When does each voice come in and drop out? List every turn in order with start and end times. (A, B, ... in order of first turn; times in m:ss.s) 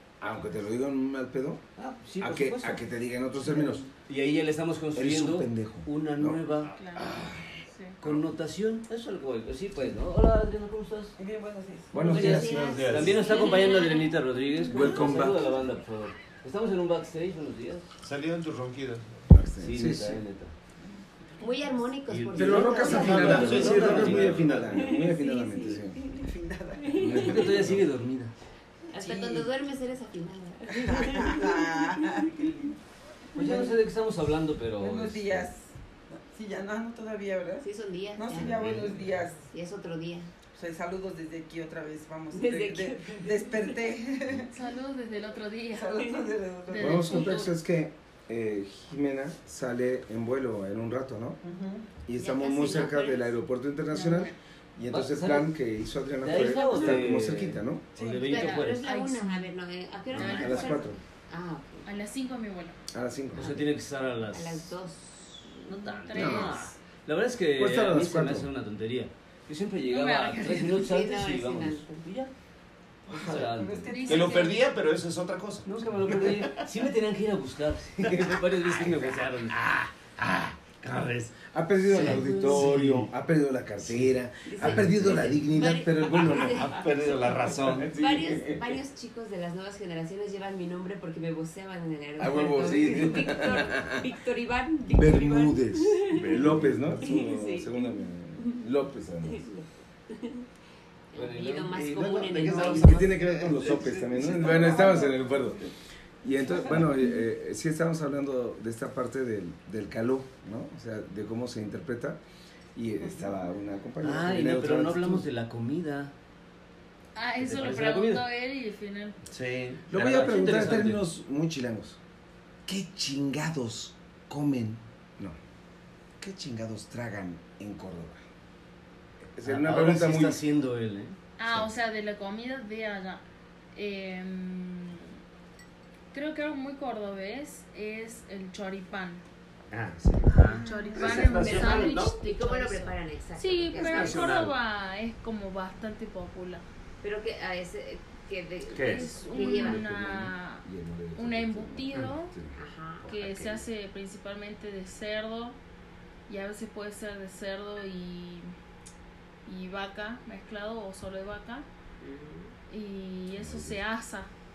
0:00.2-0:01.6 A
0:01.8-0:02.9 B
0:02.2-0:03.8 A
0:03.4-0:06.7 B
0:04.9-0:06.4 A
0:06.8-0:07.2 C
0:07.0-0:07.6 A
0:07.7-0:08.0 C
0:08.0-0:11.2 B
0:11.2-0:12.1 D
0:11.9-0:13.0 A
0:12.0-0:17.9 B
0:12.1-0:14.2 E
0:12.3-0:13.2 F
0:13.4-0:13.8 C
0:14.7-0:15.5 A
0:18.0-0:19.2 F
0:19.3-0:20.2 A
0:19.6-0:20.5 B
0:21.4-0:24.1 E
0:22.1-0:24.4 B
0:22.3-0:26.1 A
0:22.8-0:24.9 F
0:24.7-0:26.2 E
0:26.2-0:27.3 D
0:26.8-0:27.4 E
0:27.0-0:27.9 A
0:27.2-0:28.3 B
0:28.9-0:31.7 E
0:29.0-0:29.5 D
0:30.7-0:32.8 D
0:33.4-0:35.5 B
0:33.4-0:33.8 D
0:34.8-0:39.5 D
0:37.6-0:38.8 E
0:38.3-0:39.1 F
0:39.5-0:40.3 E
0:40.5-0:44.7 D
0:42.3-0:43.9 E
0:44.5-0:46.1 C
0:45.7-0:47.3 D
0:46.7-0:47.5 C
0:46.8-0:51.4 A
0:51.4-0:51.9 D
0:52.1-0:57.9 A
0:52.2-0:53.3 E
0:53.9-0:54.4 C
0:54.9-0:55.5 B
0:56.2-0:58.8 B
0:56.4-0:57.1 E
0:58.0-0:58.3 D
0:58.3-1:01.9 E
0:58.3-0:59.5 C
1:00.1-1:00.9 C
1:00.2-1:01.0 A
1:01.8-1:02.8 C
1:02.9-1:03.5 A
1:03.4-1:04.7 B
1:03.4-1:03.7 E
1:04.3-1:05.8 E
1:05.7-1:06.8 C
1:05.7-1:12.3 B
1:06.1-1:06.6 A
1:07.6-1:08.5 A
1:09.8-1:10.8 C
1:10.7-1:12.0 E
1:13.1-1:14.0 B
1:13.1-1:14.6 D
1:13.9-1:14.6 C
1:14.1-1:16.7 F
1:15.6-1:19.6 B
1:19.5-1:23.1 F
1:21.5-1:26.8 A
1:24.5-1:38.6 E
1:24.6-1:24.9 F
1:26.2-1:27.9 F
1:27.6-1:28.8 A
1:32.2-1:34.0 A
1:34.9-1:39.5 A
1:36.1-1:36.7 F
1:39.2-1:40.5 E
1:41.1-1:43.2 E
1:41.2-1:41.8 B
1:41.8-1:44.3 F
1:41.8-1:45.7 A
1:44.4-1:45.5 D
1:46.2-1:52.2 A
1:52.8-1:55.3 A
1:54.0-1:56.1 B
1:57.2-1:59.2 C
1:57.4-1:58.2 B
1:59.3-1:59.8 F
1:59.9-2:02.0 A
1:59.9-2:01.0 B
2:02.7-2:05.4 A
2:06.2-2:08.2 A
2:09.3-2:10.4 A
2:09.4-2:11.7 B
2:11.4-2:13.2 C
2:13.7-2:15.2 C
2:16.1-2:19.2 C
2:19.7-2:22.2 F
2:20.3-2:20.6 B
2:20.6-2:26.6 C
2:20.7-2:24.4 E
2:20.8-2:21.2 D
2:23.8-2:24.5 F
2:27.0-2:29.8 E
2:28.7-2:29.1 F
2:28.8-2:30.6 C
2:29.3-2:32.6 A
2:31.2-2:32.4 C
2:32.6-2:33.1 E
2:33.1-2:35.6 C
2:33.1-2:33.5 F
2:36.3-2:38.5 C
2:39.5-2:41.7 C
2:42.0-2:42.6 E
2:42.7-2:44.3 C
2:43.3-2:43.8 A